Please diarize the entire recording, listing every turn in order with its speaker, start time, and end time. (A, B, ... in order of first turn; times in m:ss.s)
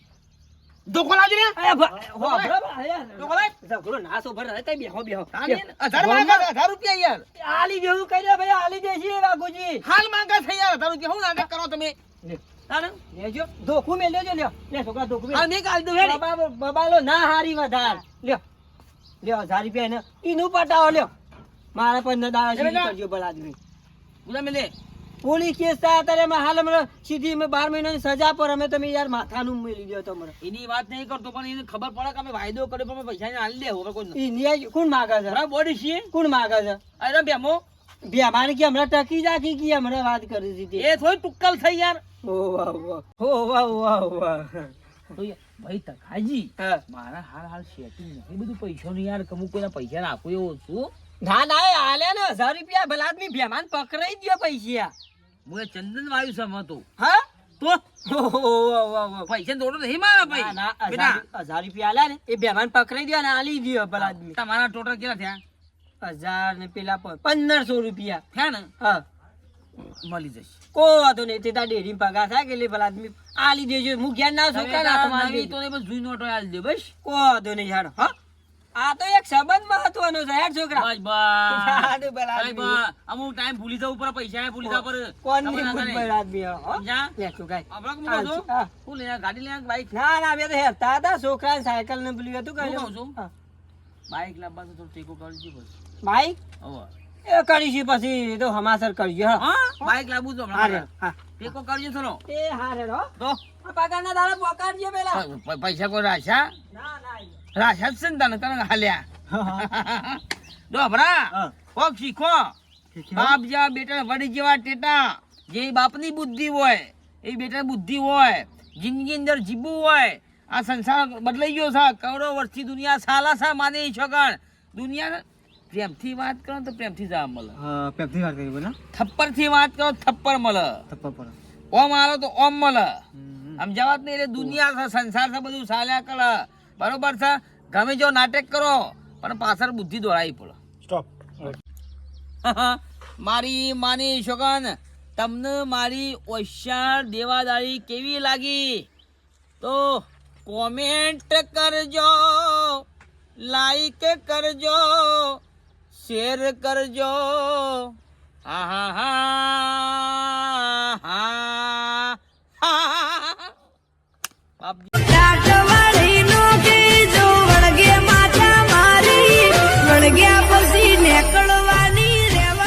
0:00.9-0:01.6 A
0:01.6-0:06.4 B
0:02.1-0:02.5 A
0:03.2-0:03.5 A
0:05.3-0:07.2 A
0:07.4-0:09.8 B
0:09.8-0:11.9 A
0:12.7-0:13.0 A
0:13.1-0:15.4 B
0:15.3-0:16.2 A
0:16.0-0:18.4 B
0:19.2-0:21.1 B
0:21.7-0:23.6 B
0:22.5-0:22.9 A
0:24.2-0:24.7 A
0:25.2-0:30.3 B
0:30.4-0:34.2 A
0:34.1-0:35.4 B
0:35.3-0:36.1 A
0:36.1-0:36.8 B
0:37.0-0:37.6 A
0:38.0-0:40.9 B
0:40.8-0:42.0 A
0:42.2-0:44.7 B
0:45.1-0:50.9 A
0:51.2-0:54.9 B
0:55.4-0:56.8 A
0:57.0-0:57.2 B
0:58.0-0:59.3 B
0:59.3-1:01.2 A
1:00.2-1:04.4 B
1:04.0-1:05.4 A
1:06.0-1:08.2 B
1:08.3-1:08.7 A
1:10.0-1:10.6 A
1:10.7-1:15.5 B
1:14.5-1:16.9 A
1:17.0-1:18.1 B
1:18.8-1:20.9 B
1:20.7-1:26.0 A
1:21.5-1:22.8 B
1:24.6-1:28.7 B
1:26.7-1:27.1 A
1:27.7-1:29.9 A
1:29.9-1:33.3 B
1:32.6-1:33.1 A
1:34.1-1:35.7 A
1:36.0-1:36.4 B
1:36.6-1:36.9 A
1:37.2-1:39.9 B
1:39.4-1:42.2 A
1:40.5-1:41.2 B
1:42.2-1:43.1 B
1:43.6-1:45.2 B
1:45.1-1:46.5 A
1:46.7-1:47.4 B
1:47.5-1:49.0 A
1:49.3-1:49.7 C
1:49.6-1:52.5 A
1:51.3-1:51.6 C
1:52.9-1:53.4 C
1:53.1-2:07.5 A
2:07.5-2:08.8 C
2:08.9-2:10.8 A
2:10.9-2:11.4 C
2:11.7-2:13.0 A
2:13.1-2:13.6 C
2:13.6-2:20.6 A
2:20.8-2:21.6 C
2:22.4-2:28.9 A
2:29.6-2:32.8 A
2:33.4-2:35.4 A
2:35.9-2:37.9 A
2:38.4-2:43.5 A
2:44.6-2:44.9 A